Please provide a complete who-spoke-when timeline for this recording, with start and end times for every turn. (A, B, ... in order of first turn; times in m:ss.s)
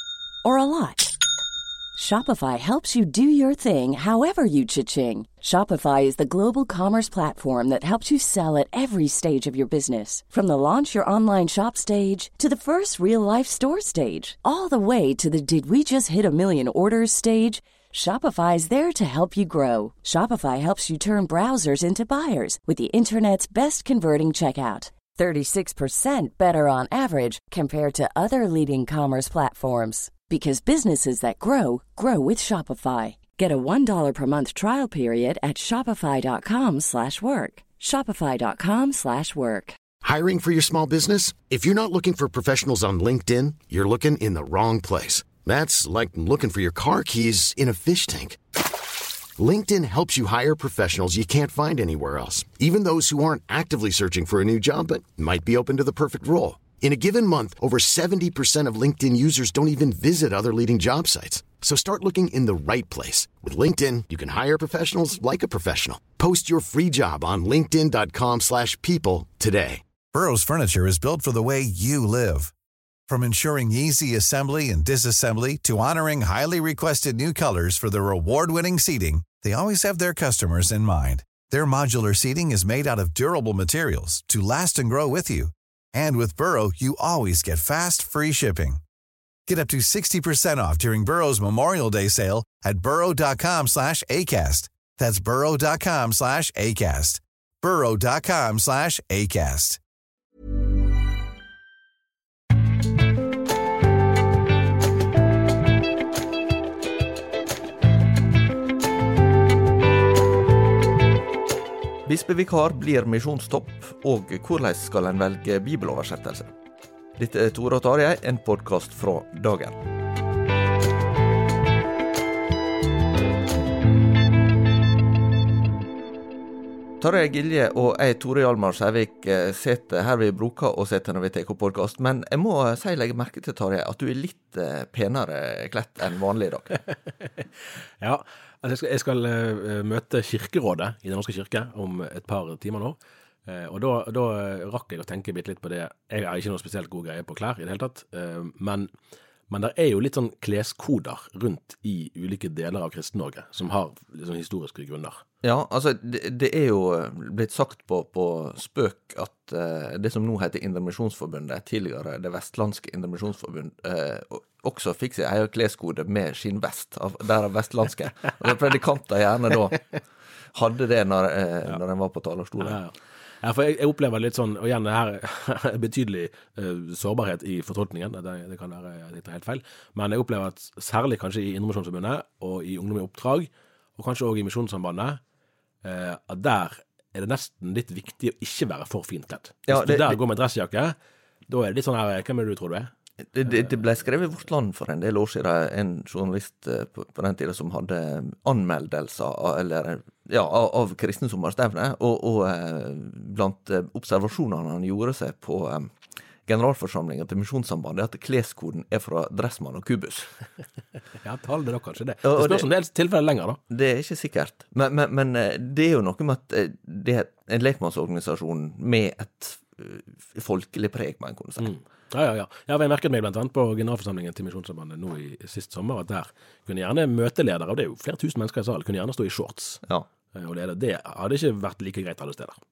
0:00.4-0:01.1 A
0:01.9-0:39.8 A
0:40.0-0:48.4 B
0:49.4-1:09.8 B
1:10.1-1:12.5 C
1:13.1-1:28.8 C
1:29.5-1:39.8 C
1:52.0-1:56.5 D
1:57.2-1:59.8 D
2:07.0-2:16.8 D
2:18.0-2:28.9 E
2:29.5-2:35.2 E
2:35.4-2:50.0 D
2:50.5-2:52.8 D
2:52.6-3:05.2 E
3:05.8-3:10.9 E
3:09.7-3:10.2 D
3:11.5-3:12.9 E
3:13.3-3:25.9 D
3:26.4-3:30.3 D
3:31.2-3:33.6 E
3:32.2-3:32.7 D
3:33.7-3:41.7 D
3:41.6-3:49.8 E
3:50.3-3:52.6 E